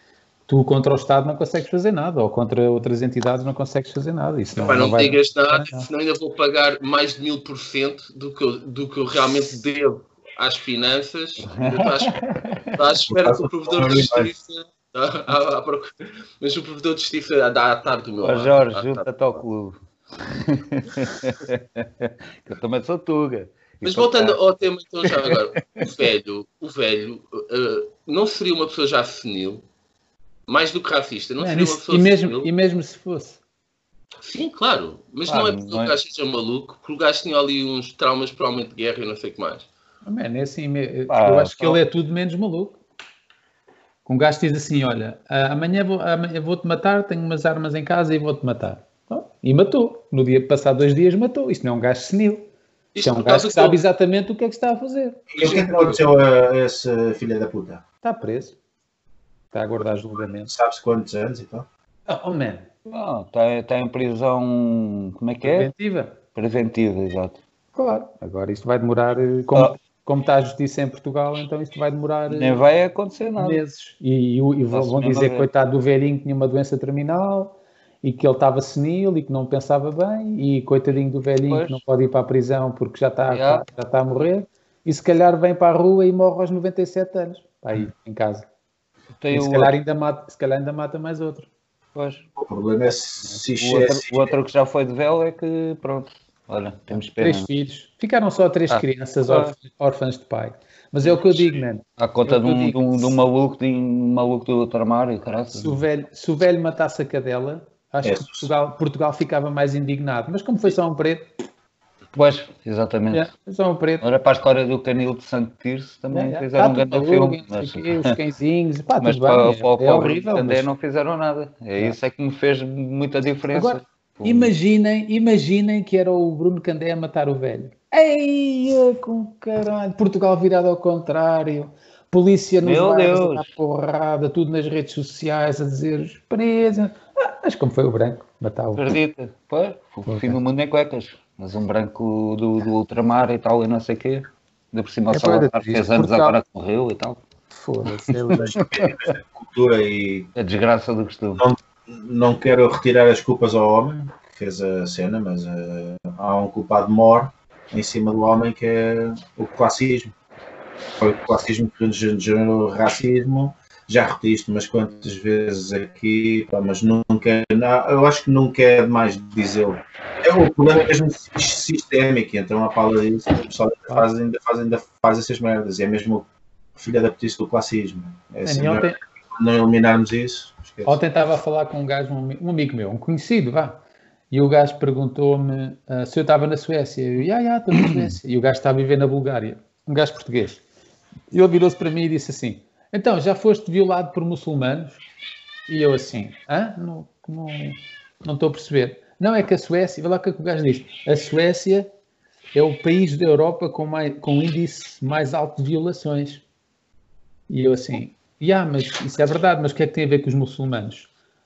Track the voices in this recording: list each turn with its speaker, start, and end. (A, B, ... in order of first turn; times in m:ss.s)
0:00.5-0:05.9 A
0:04.6-0:12.2 B
0:11.5-0:12.6 C
0:12.7-0:19.4 B
0:13.1-0:14.3 D
0:18.2-0:24.4 C
0:23.8-0:29.6 B
0:25.1-0:25.9 C
0:30.5-0:32.5 B
0:31.4-0:33.4 A
0:34.2-0:39.7 B
0:35.2-0:35.9 C
0:40.0-0:42.8 A
0:41.1-0:41.8 C
0:44.0-0:52.5 A
0:52.9-0:53.8 B
0:53.0-0:55.3 A
0:55.3-0:57.8 D
0:58.0-0:58.6 A
0:59.5-1:00.5 A
1:00.4-1:01.7 D
1:02.1-1:02.7 A
1:02.8-1:05.7 C
1:05.4-1:06.2 A
1:06.3-1:07.4 C
1:07.7-1:12.6 A
1:12.3-1:13.6 C
1:13.4-1:28.4 A
1:14.7-1:15.5 C
1:21.5-1:21.8 C
1:23.3-1:23.6 C
1:29.2-1:29.8 C
1:29.3-1:31.5 A
1:31.9-1:32.2 C
1:32.4-1:34.3 D
1:33.6-1:37.5 C
1:36.9-1:43.1 A
1:38.7-1:39.6 C
1:42.0-1:45.8 C
1:45.5-1:51.3 A
1:48.0-1:48.5 D
1:52.1-1:53.3 C
1:53.1-1:54.0 A
1:54.0-1:58.0 C
1:56.1-2:00.7 A
1:59.0-2:04.5 C
2:03.5-2:18.8 A
2:12.6-2:13.5 C
2:18.8-2:27.2 C
2:20.0-2:20.4 A
2:25.1-2:26.4 A
2:27.5-2:28.6 A
2:28.3-2:28.9 C
2:28.3-2:30.3 D
2:30.4-2:31.4 C
2:31.4-2:40.1 D
2:41.0-2:56.2 D
2:56.8-3:01.0 D
2:58.4-2:59.0 A
3:00.8-3:10.6 A
3:11.3-3:15.0 A
3:15.7-3:21.9 A
3:22.5-3:26.4 A
3:27.5-3:31.1 A